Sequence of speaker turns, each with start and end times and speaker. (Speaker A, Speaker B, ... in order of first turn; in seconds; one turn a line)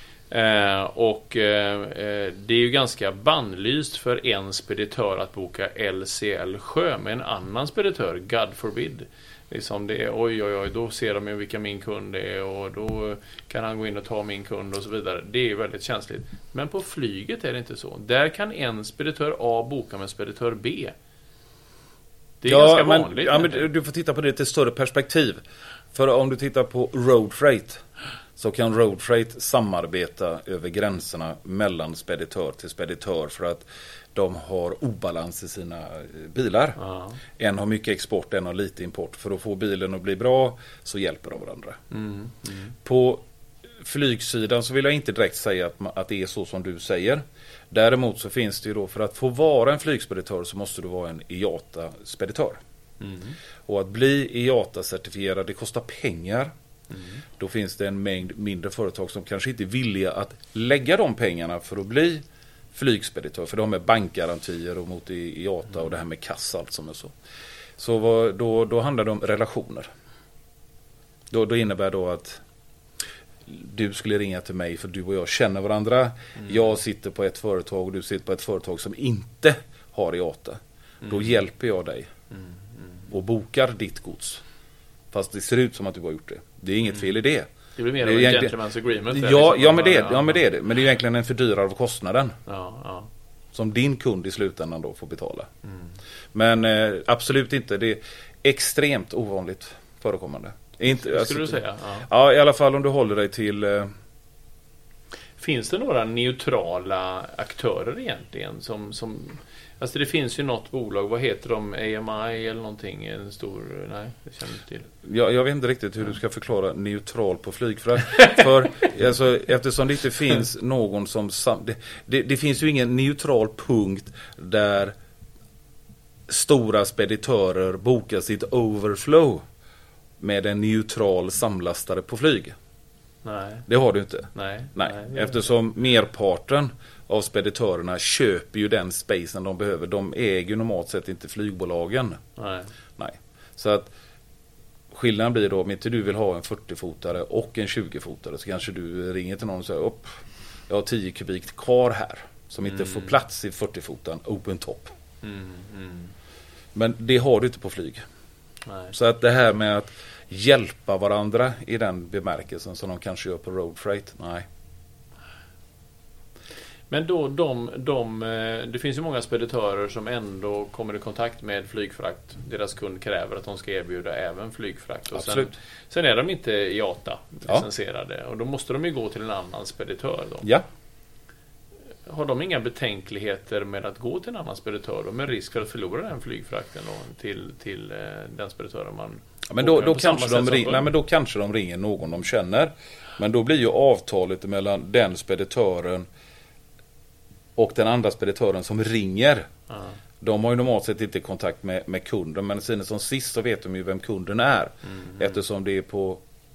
Speaker A: 0.3-20.9
Speaker A: 22.4-23.6
Speaker B: 22.4-25.4
Speaker B: 25.9-27.8
Speaker B: 28.4-36.8
Speaker A: 36.8-37.2
Speaker B: 37.4-41.8
Speaker A: 41.9-42.7
Speaker B: 42.8-43.2
Speaker B: 43.8-52.6
Speaker A: 53.0-53.4
Speaker B: 53.7-56.5
Speaker A: 56.9-57.2
Speaker B: 57.4-62.2
Speaker B: 62.7-67.1
Speaker B: 67.8-69.9
Speaker B: 71.3-72.4
Speaker B: 73.5-82.1
Speaker A: 81.0-81.3
Speaker A: 82.3-83.0
Speaker B: 83.1-84.4
Speaker B: 85.1-87.5
Speaker A: 87.8-90.4
Speaker B: 88.0-88.5
Speaker B: 89.1-92.4
Speaker A: 92.5-93.1
Speaker B: 93.5-95.5
Speaker A: 95.6-95.9
Speaker B: 96.3-103.9
Speaker A: 101.0-102.1
Speaker A: 105.4-114.9
Speaker B: 115.0-124.9
Speaker B: 126.3-129.4
Speaker B: 130.2-132.6
Speaker A: 133.2-133.6
Speaker B: 133.7-142.2
Speaker A: 134.3-135.3
Speaker A: 142.4-142.7
Speaker B: 143.0-143.9
Speaker B: 144.9-154.9
Speaker A: 152.8-153.1
Speaker A: 155.2-156.1
Speaker B: 156.7-158.0
Speaker A: 158.7-158.9
Speaker B: 158.9-164.5
Speaker A: 166.9-180.4
Speaker B: 175.1-175.5
Speaker A: 182.1-190.9
Speaker B: 189.5-196.1
Speaker B: 197.6-199.5
Speaker B: 200.2-206.2